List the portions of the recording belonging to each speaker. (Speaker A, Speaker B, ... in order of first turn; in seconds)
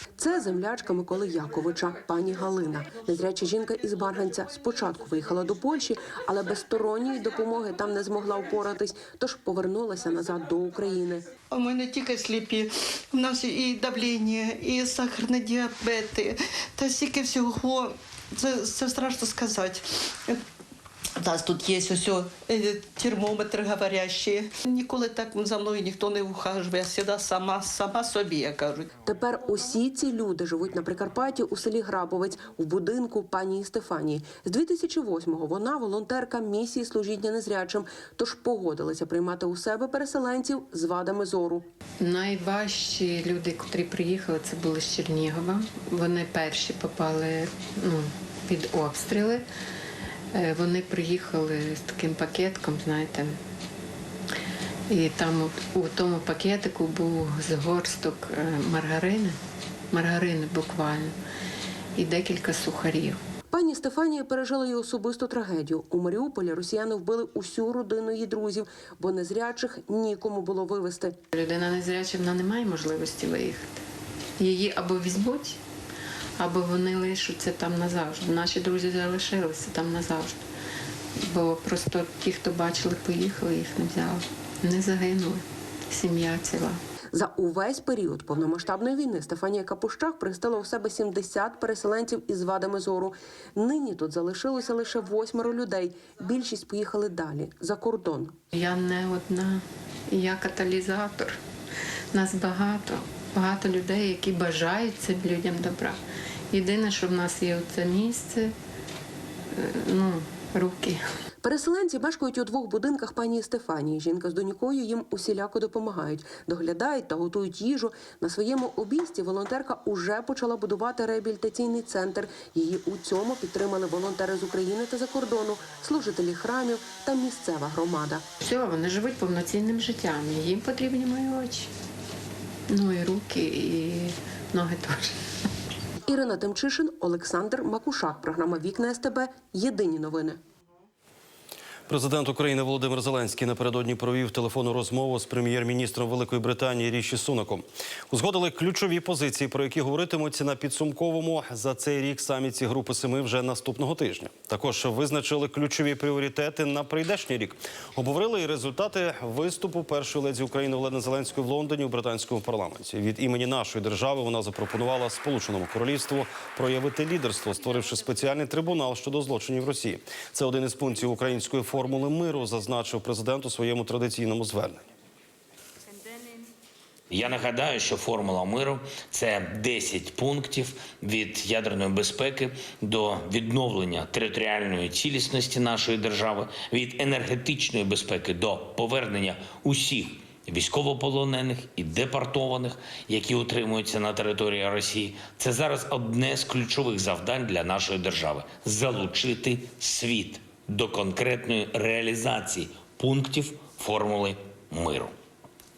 Speaker A: 0.2-11.2, 29.0-41.6, 63.5-71.2, 87.1-98.3, 111.4-128.2, 136.1-140.4
Speaker B: 11.6-12.7, 13.2-16.2, 16.8-17.9, 18.4-19.8, 21.8-22.1, 22.6-23.7, 26.5-27.1, 27.9-28.1
Speaker C: 42.0-49.4, 50.3-53.4, 54.9-59.4, 59.9-61.1, 61.9-63.2, 71.3-73.7, 74.4-75.6, 76.4-80.4, 81.2-86.8, 98.5-101.4, 102.1-106.0, 106.5-108.5, 109.5-111.0, 128.4-131.7, 132.7-135.2
Speaker D: 141.9-174.9
Speaker E: 177.1-205.1